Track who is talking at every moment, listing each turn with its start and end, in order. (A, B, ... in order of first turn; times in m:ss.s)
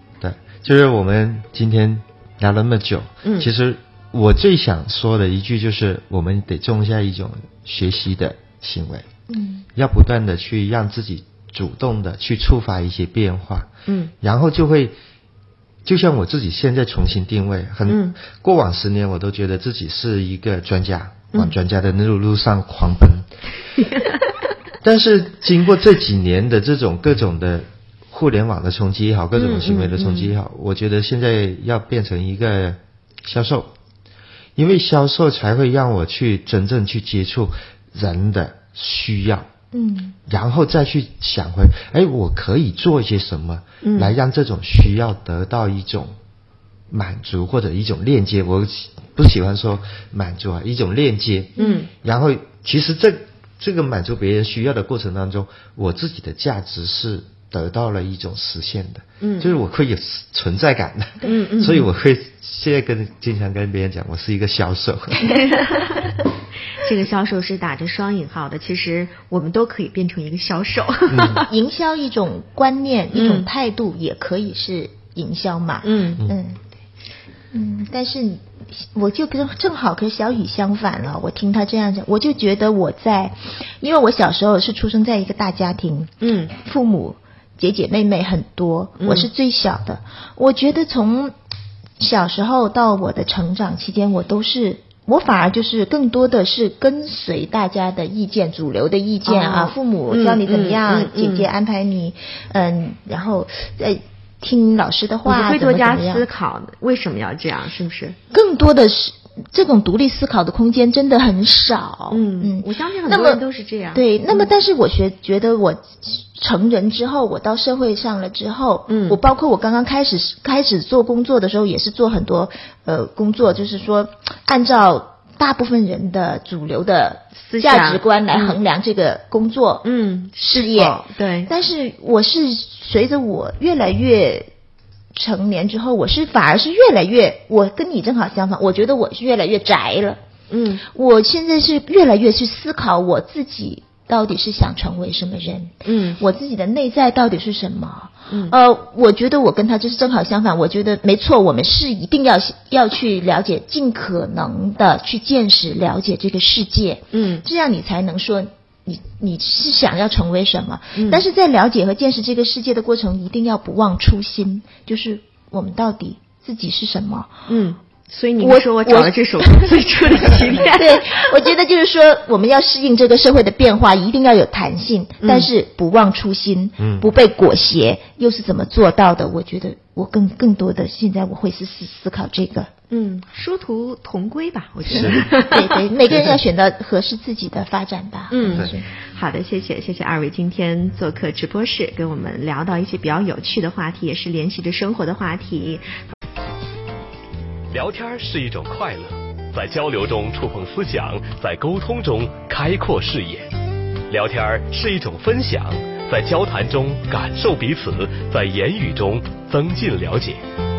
0:00.2-0:09.0 A
0:03.2-0:03.5 B
0:09.3-0:09.6 C
0:09.7-0:13.7 A
0:13.8-0:14.1 B
0:14.2-0:14.9 A
0:15.8-0:23.3 A
0:17.9-0:18.2 B
0:23.8-0:24.2 B
0:24.8-0:33.7 A
0:29.3-0:30.3 B
0:34.6-0:39.5 A
0:39.7-0:40.2 C
0:40.3-0:46.1 A
0:43.8-0:44.1 B
0:46.9-1:05.8 A
0:51.6-0:51.9 B
0:59.2-0:59.6 B
1:01.2-1:01.9 B
1:05.3-1:06.0 B
1:06.7-1:11.5 B
1:11.1-1:11.4 A
1:11.4-1:16.6 C
1:13.1-1:13.5 B
1:15.8-1:16.2 B
1:17.5-1:31.3 C
1:26.2-1:26.5 B
1:29.0-1:29.3 B
1:32.0-1:46.2 C
1:39.2-1:41.5 B
1:45.2-1:48.2 B
1:48.3-1:53.4 C
1:52.1-1:54.5 B
1:53.9-2:09.8 C
1:58.9-1:59.2 B
2:07.4-2:08.6 B
2:09.8-2:11.5 B
2:10.4-2:14.5 C
2:15.1-2:20.2 C
2:20.5-2:20.8 B
2:20.9-2:47.3 C
2:25.8-2:26.2 B
2:28.3-2:28.5 B
2:37.1-2:37.4 B
2:40.9-2:41.2 B
2:47.5-2:51.3 B
2:48.4-3:02.7 C
2:55.2-2:55.5 B
2:56.8-2:57.1 A
3:02.9-3:05.8 B
3:04.9-3:05.2 A
3:04.9-3:08.8 C
3:08.3-3:15.8 B
3:08.4-3:08.7 A
3:17.7-3:23.5 D
3:24.1-3:30.4 D